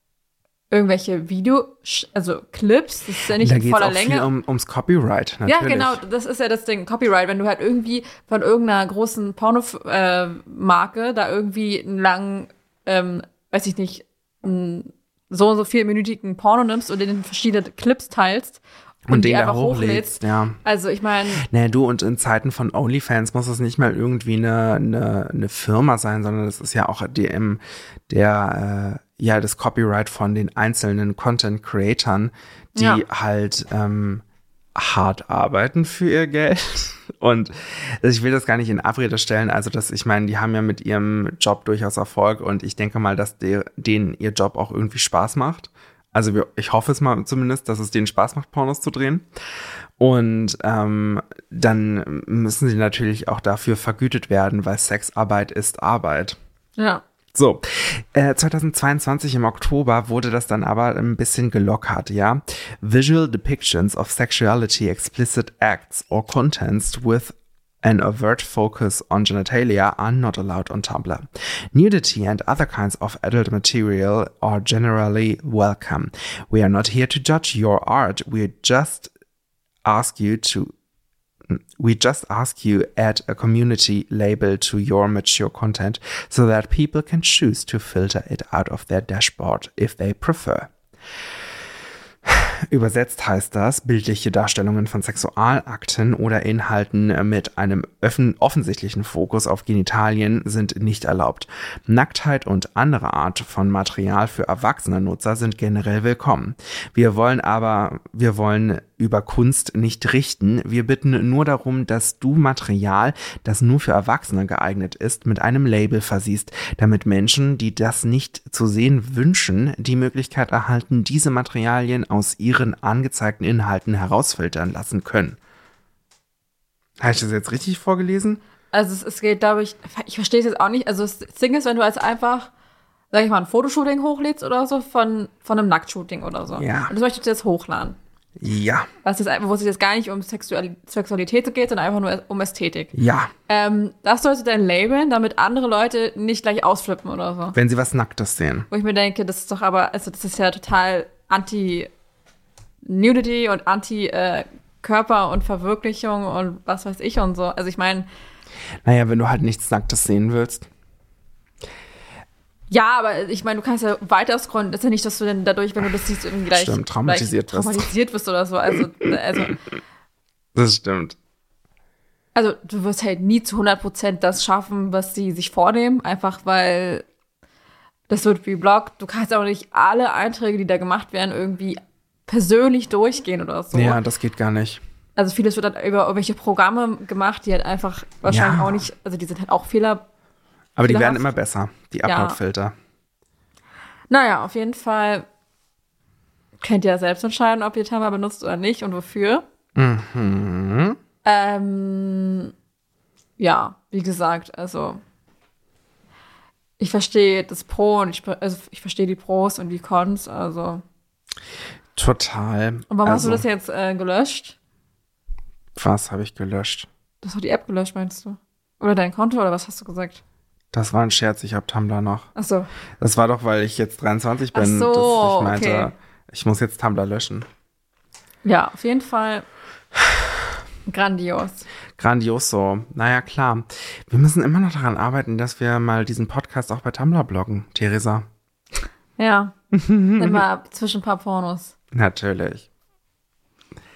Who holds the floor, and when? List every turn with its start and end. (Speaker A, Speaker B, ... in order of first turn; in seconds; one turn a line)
Speaker A: 0.7-4.3
Speaker B: 3.3-6.0
Speaker A: 5.5-21.4
Speaker B: 19.1-20.6
Speaker B: 21.4-34.2
Speaker A: 32.8-33.0
Speaker B: 34.8-49.3
Speaker B: 50.0-56.4
Speaker A: 56.8-57.0
Speaker B: 57.3-79.1
Speaker B: 79.8-80.7
Speaker B: 81.5-90.7
Speaker B: 92.3-125.4
Speaker B: 127.0-128.4
Speaker A: 128.7-132.5
Speaker A: 133.1-138.0
Speaker B: 136.6-136.9
Speaker B: 138.4-138.9
Speaker A: 139.0-142.9
Speaker B: 142.9-143.3
Speaker A: 143.5-147.6
Speaker B: 147.5-148.7
Speaker A: 148.7-151.9
Speaker A: 152.8-158.1
Speaker B: 158.8-160.7
Speaker A: 162.7-169.6
Speaker B: 166.5-167.9
Speaker B: 170.6-171.2
Speaker A: 172.3-177.1
Speaker A: 178.1-184.0
Speaker B: 183.7-184.8
Speaker A: 185.2-190.1
Speaker B: 188.3-188.8
Speaker B: 190.8-192.8
Speaker A: 190.8-191.3
Speaker A: 192.1-192.4
Speaker A: 194.1-195.3
Speaker A: 196.6-199.4
Speaker B: 199.8-201.0
Speaker A: 201.2-202.5
Speaker A: 203.4-205.0
Speaker A: 206.8-210.8
Speaker B: 212.0-213.4
Speaker A: 212.9-214.6
Speaker B: 215.8-216.9
Speaker A: 217.2-220.2
Speaker B: 220.7-222.3
Speaker A: 222.3-222.7
Speaker B: 223.0-227.5
Speaker A: 224.5-225.9
Speaker A: 228.4-229.5
Speaker A: 230.9-231.7
Speaker B: 232.0-238.3
Speaker A: 239.2-239.6
Speaker B: 239.7-240.4
Speaker A: 240.2-241.7
Speaker B: 241.9-242.7